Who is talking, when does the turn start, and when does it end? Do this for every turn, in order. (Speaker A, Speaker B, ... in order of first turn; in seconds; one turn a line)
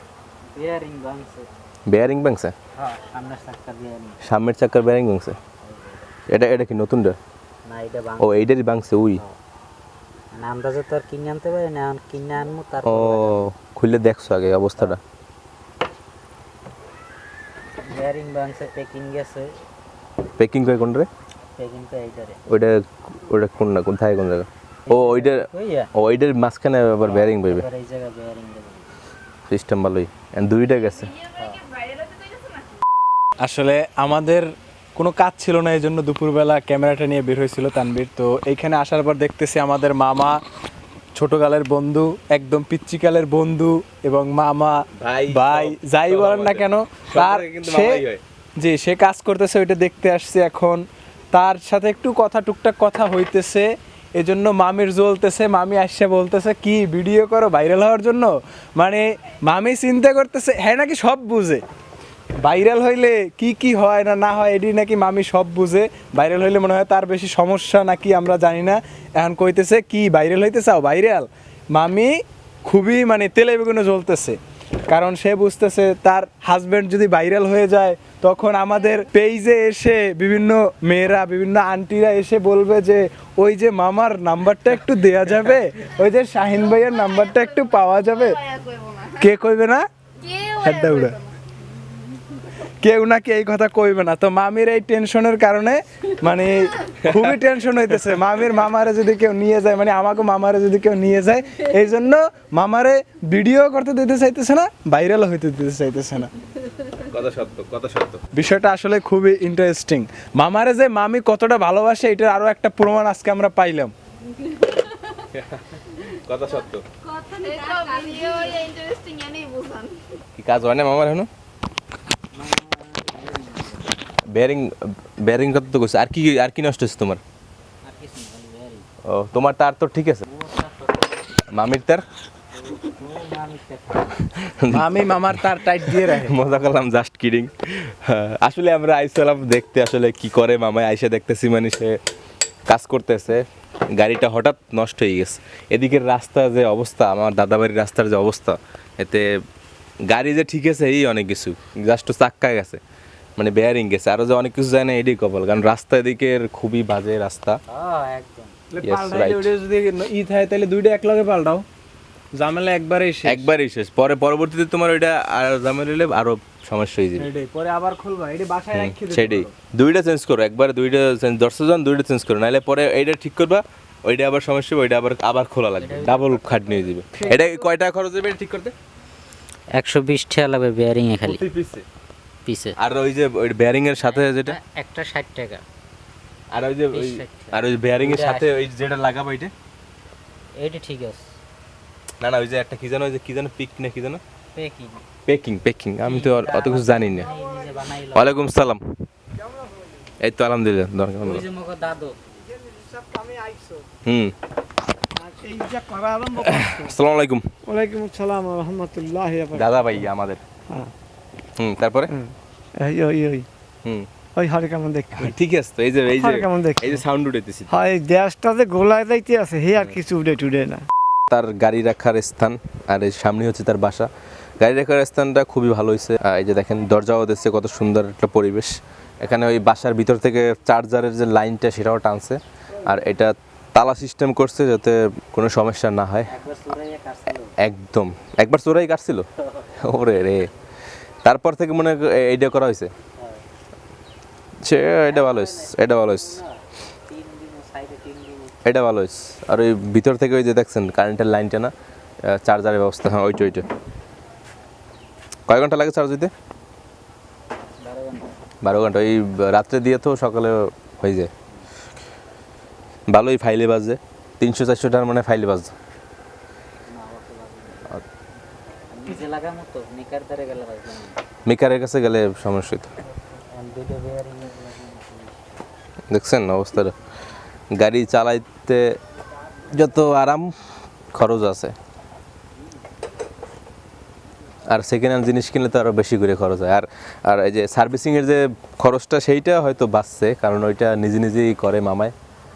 Speaker A: 0.5-1.5
Speaker B: 1.9-2.5
Speaker A: 2.8-4.2
Speaker B: 4.2-5.4
Speaker A: 5.6-6.1
Speaker B: 6.3-7.2
Speaker A: 7.7-8.5
Speaker B: 8.2-9.2
Speaker A: 10.3-13.5
Speaker B: 12.8-15.0
Speaker A: 17.8-19.5
Speaker B: 20.4-21.1
Speaker A: 21.6-22.4
Speaker B: 22.5-27.6
Speaker A: 24.9-25.9
Speaker A: 27.0-28.9
Speaker B: 29.5-31.2
Speaker A: 31.3-31.7
Speaker C: 33.4-40.4
Speaker C: 41.2-48.0
Speaker B: 45.0-48.2
Speaker C: 48.6-61.6
Speaker C: 62.4-88.4
Speaker D: 88.6-89.0
Speaker C: 89.1-89.8
Speaker C: 90.5-91.2
Speaker C: 92.8-106.3
Speaker B: 97.0-97.3
Speaker B: 107.0-108.2
Speaker C: 108.3-113.9
Speaker B: 115.3-116.9
Speaker D: 117.3-120.0
Speaker B: 120.4-121.3
Speaker A: 122.3-124.0
Speaker B: 124.3-127.2
Speaker A: 127.8-128.9
Speaker B: 129.1-130.2
Speaker A: 130.2-131.3
Speaker B: 131.5-132.0
Speaker A: 132.5-134.5
Speaker B: 134.5-142.0
Speaker C: 134.7-136.4
Speaker B: 142.7-149.3
Speaker B: 150.1-152.8
Speaker B: 153.4-157.6
Speaker A: 157.7-158.6
Speaker C: 158.7-161.6
Speaker B: 158.8-159.5
Speaker C: 162.3-163.5
Speaker B: 163.2-167.3
Speaker C: 167.2-169.6
Speaker B: 168.7-178.7
Speaker A: 175.8-177.4
Speaker C: 177.2-177.5
Speaker A: 179.7-181.4
Speaker B: 181.2-181.8
Speaker A: 182.4-182.8
Speaker B: 182.8-184.6
Speaker A: 184.0-185.6
Speaker B: 186.5-189.5
Speaker A: 186.9-188.5
Speaker A: 190.6-191.3
Speaker B: 192.2-194.2
Speaker A: 194.6-195.1
Speaker B: 195.2-197.4
Speaker A: 196.0-198.4
Speaker B: 198.1-198.8
Speaker B: 200.2-201.4
Speaker A: 201.2-202.2
Speaker E: 202.8-203.8
Speaker B: 204.1-204.3
Speaker E: 205.2-206.9
Speaker B: 206.3-207.4
Speaker E: 207.7-210.0
Speaker B: 209.5-210.4
Speaker B: 211.6-212.1
Speaker E: 212.1-213.5
Speaker E: 214.4-215.3
Speaker B: 215.1-217.7
Speaker E: 216.1-217.0
Speaker E: 217.7-220.8
Speaker B: 221.3-224.1
Speaker B: 224.6-236.3
Speaker A: 236.3-237.5
Speaker B: 237.6-239.3
Speaker A: 239.4-239.7
Speaker B: 239.8-240.5
Speaker B: 241.2-242.9
Speaker A: 243.2-243.4
Speaker B: 244.6-246.4
Speaker A: 245.1-248.6
Speaker B: 248.7-251.7
Speaker B: 252.2-253.7
Speaker B: 255.5-256.3
Speaker A: 257.8-258.4
Speaker B: 258.6-261.3
Speaker B: 263.1-265.7
Speaker A: 266.9-268.0
Speaker A: 268.9-271.2
Speaker B: 271.5-272.9
Speaker A: 273.5-275.6
Speaker B: 276.1-276.9
Speaker B: 277.7-279.0
Speaker B: 279.7-280.5
Speaker B: 281.1-281.8
Speaker B: 284.7-292.1